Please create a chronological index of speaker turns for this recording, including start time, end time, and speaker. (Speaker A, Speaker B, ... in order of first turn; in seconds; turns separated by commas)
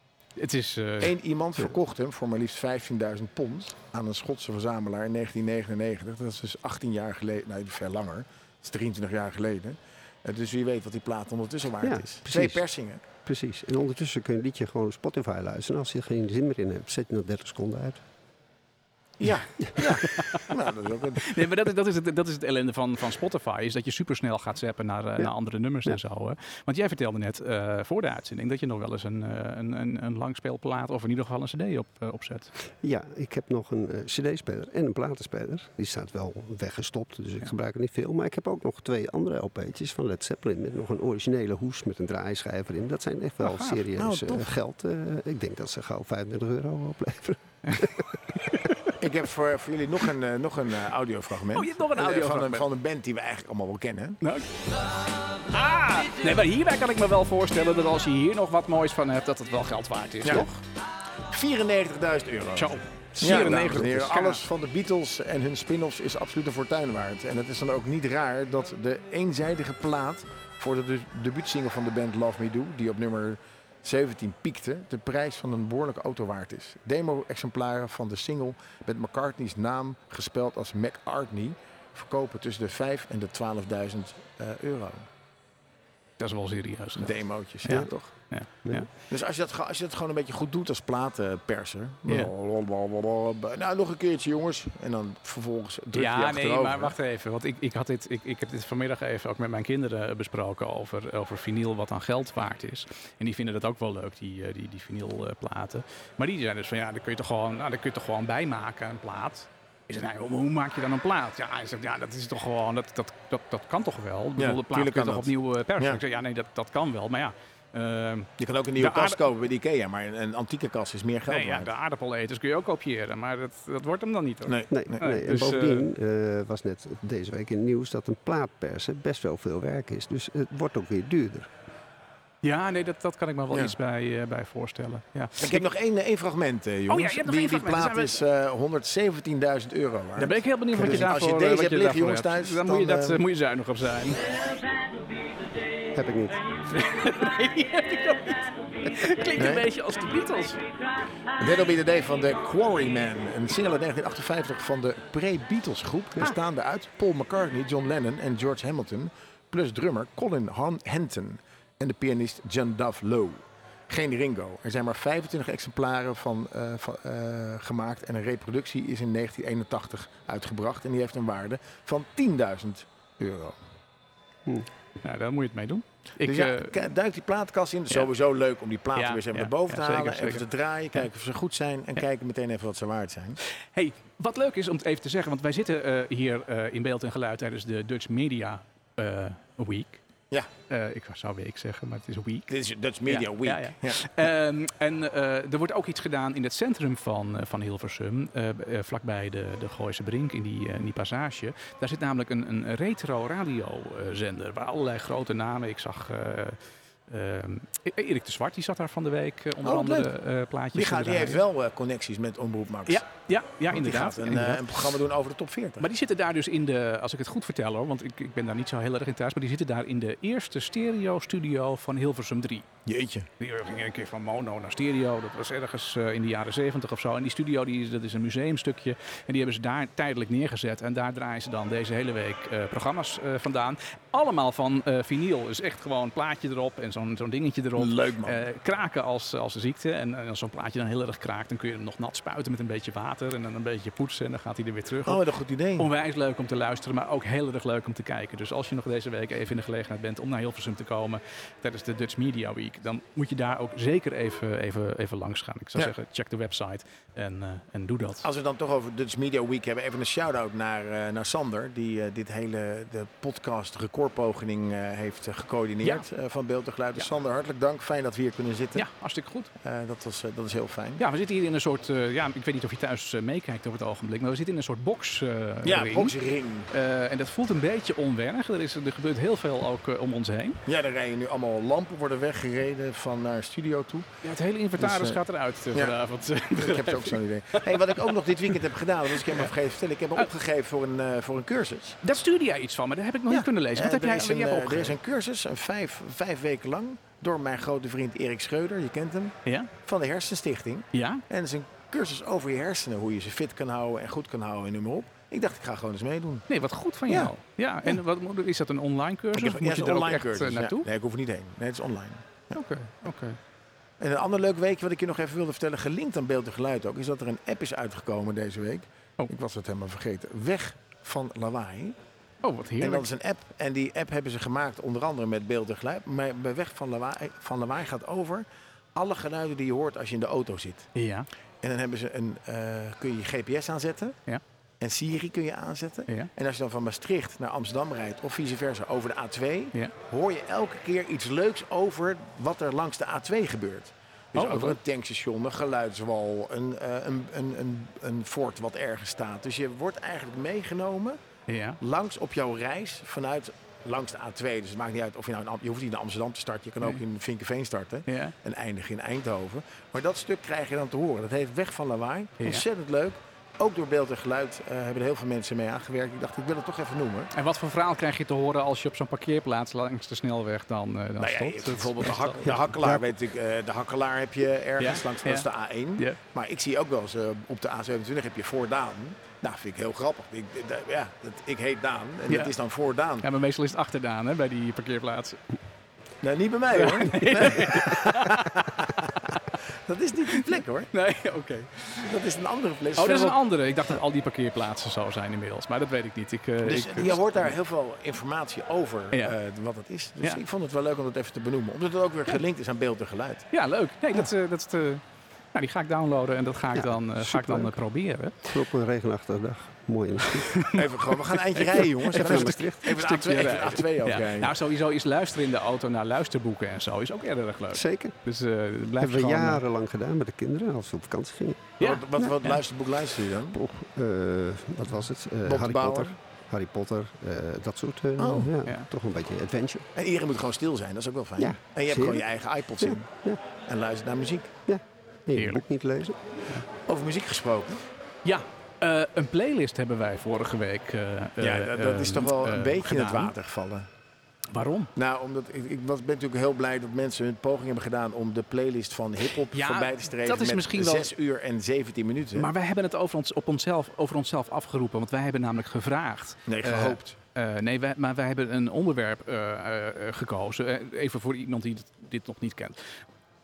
Speaker A: 0.4-1.1, Speaker B: 1.0-13.0, Speaker C: 11.8-12.6, Speaker C: 13.2-18.0, Speaker B: 19.2-21.4, Speaker C: 19.6-20.0, Speaker A: 20.1-20.5, Speaker A: 21.2-32.5, Speaker C: 32.8-48.2, Speaker A: 43.4-43.8, Speaker B: 44.0-44.5, Speaker A: 48.5-48.9, Speaker B: 49.0-54.2, Speaker A: 51.5-52.6, Speaker A: 54.2-54.5, Speaker A: 55.4-60.6, Speaker B: 61.3-85.1, Speaker A: 62.5-64.4, Speaker A: 86.2-88.9, Speaker B: 87.0-88.1, Speaker B: 89.1-96.9, Speaker A: 95.9-119.2, Speaker B: 114.4-116.0, Speaker B: 118.4-121.7, Speaker A: 121.3-125.9, Speaker B: 124.5-125.0, Speaker C: 124.7-131.5, Speaker A: 132.4-135.6, Speaker B: 135.4-143.2, Speaker A: 136.9-138.2, Speaker A: 140.2-144.2, Speaker C: 140.8-141.1, Speaker C: 145.9-146.4, Speaker A: 146.7-150.6, Speaker B: 149.3-149.7, Speaker B: 151.4-173.5, Speaker A: 175.0-176.8, Speaker B: 176.2-183.4, Speaker A: 178.9-180.4, Speaker A: 183.7-190.0, Speaker A: 190.7-192.5, Speaker B: 192.5-194.1, Speaker A: 193.1-211.4, Speaker B: 209.6-210.1, Speaker B: 210.7-213.0, Speaker A: 212.9-214.7, Speaker B: 213.7-215.9, Speaker A: 215.8-222.7, Speaker B: 222.8-223.3, Speaker A: 223.4-245.2, Speaker B: 237.8-238.4, Speaker B: 245.1-245.9, Speaker A: 245.8-258.2, Speaker B: 258.2-268.9, Speaker A: 268.7-269.5, Speaker B: 269.6-271.0, Speaker A: 271.0-276.1, Speaker B: 275.6-276.7, Speaker A: 276.7-280.6, Speaker B: 280.6-284.1, Speaker A: 284.2-288.6, Speaker B: 284.8-285.2, Speaker B: 286.5-292.0, Speaker A: 289.2-289.5, Speaker A: 292.0-295.0, Speaker B: 293.3-306.5, Speaker A: 300.9-301.2, Speaker A: 306.5-310.9, Speaker B: 309.3-312.5, Speaker A: 312.5-313.4, Speaker B: 314.0-321.9, Speaker A: 322.4-323.1, Speaker B: 322.8-330.9, Speaker A: 330.9-331.3, Speaker B: 331.6-334.2, Speaker B: 334.8-351.2, Speaker A: 344.3-344.8, Speaker A: 351.5-351.8, Speaker B: 351.8-367.3, Speaker A: 358.1-358.3, Speaker A: 362.4-362.6, Speaker A: 367.3-372.5, Speaker B: 371.2-383.2, Speaker C: 372.8-373.1, Speaker A: 374.8-375.5, Speaker A: 383.2-385.4, Speaker B: 386.2-389.1, Speaker A: 386.7-389.4, Speaker B: 389.8-390.9, Speaker A: 390.3-392.1, Speaker B: 392.0-393.4, Speaker A: 392.9-397.5, Speaker B: 396.6-403.5, Speaker A: 403.5-405.0, Speaker A: 405.5-408.5, Speaker C: 406.7-407.8, Speaker C: 408.5-410.5, Speaker A: 410.2-419.6, Speaker B: 410.7-414.5, Speaker C: 412.0-412.9, Speaker C: 417.7-418.1, Speaker C: 419.0-422.3, Speaker A: 421.8-422.6, Speaker B: 421.8-423.6, Speaker C: 423.5-429.9, Speaker B: 425.4-426.1, Speaker B: 428.2-428.5, Speaker B: 429.9-433.1, Speaker C: 431.4-432.2, Speaker C: 432.8-433.4, Speaker B: 433.6-434.5, Speaker C: 434.7-436.2, Speaker A: 435.4-435.6, Speaker B: 436.9-437.8, Speaker A: 438.2-443.3, Speaker B: 441.4-443.9, Speaker A: 444.5-444.9, Speaker B: 444.9-452.5, Speaker A: 449.5-451.1, Speaker A: 452.3-462.9, Speaker B: 456.5-457.2